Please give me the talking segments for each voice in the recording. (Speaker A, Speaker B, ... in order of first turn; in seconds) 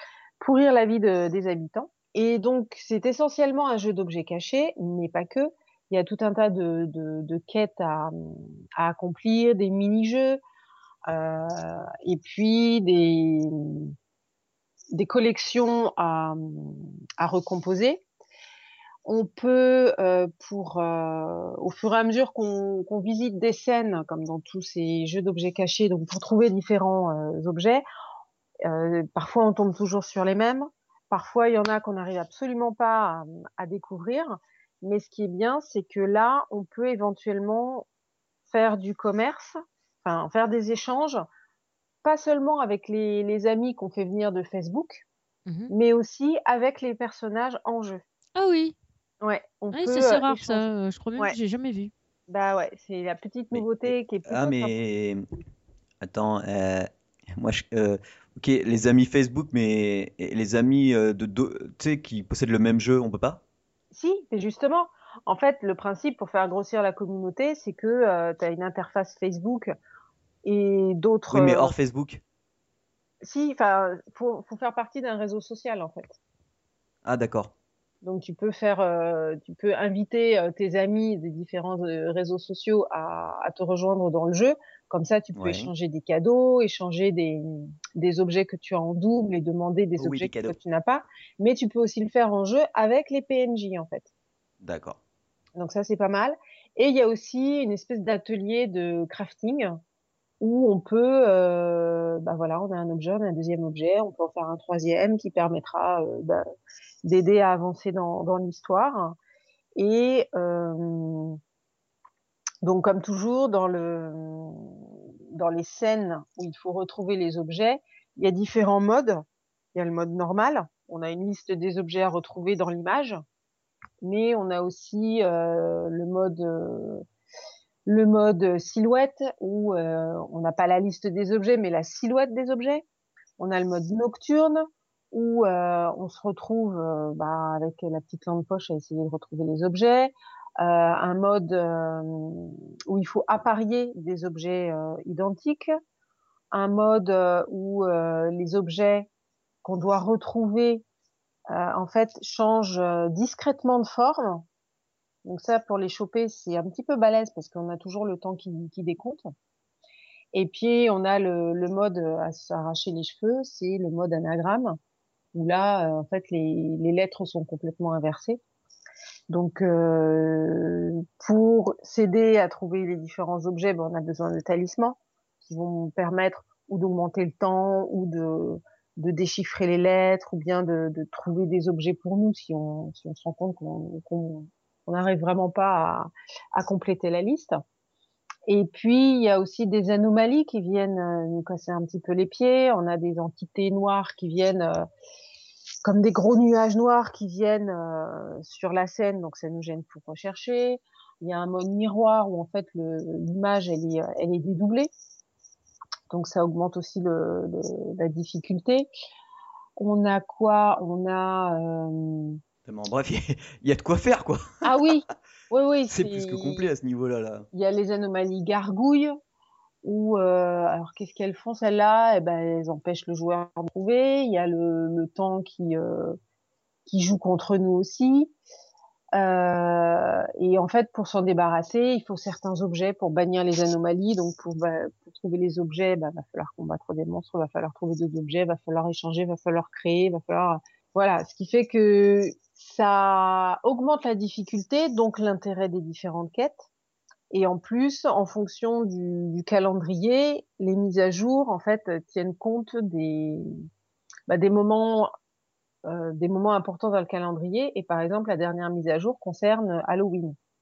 Speaker A: 0.4-10.4, 11.1-13.9, 14.9-18.0, 19.1-27.9, 28.6-37.9, 38.5-41.3, 42.0-45.0, 45.7-48.0, 49.2-51.4, 52.3-54.7, 63.9-69.7, 70.5-71.7, 73.2-76.2, 78.0-94.1, 95.6-99.8, 100.4-106.4, 107.0-109.2, 109.8-111.4, 112.6-119.2, 119.8-123.2, 124.0-127.0, 127.9-132.8, 133.4-145.7, 146.5-149.1, 149.6-150.8, 151.5-154.5, 155.2-159.2, 160.3-164.8, 165.3-168.4, 169.3-187.6, 188.5-194.9, 195.8-204.9, 206.1-208.9, 209.8-212.4, 214.6-216.7, 217.5-219.1, 219.8-226.2, 226.9-228.3, 229.2-246.7, 247.3-253.5, 254.3-255.1, 255.9-260.4
Speaker B: 45.5-45.7, 48.4-48.8, 49.7-51.9
Speaker C: 53.5-55.2, 56.0-63.4, 71.3-72.2, 77.0-77.5, 85.3-85.7, 90.0-90.6, 94.6-95.0, 212.7-214.6, 215.9-217.5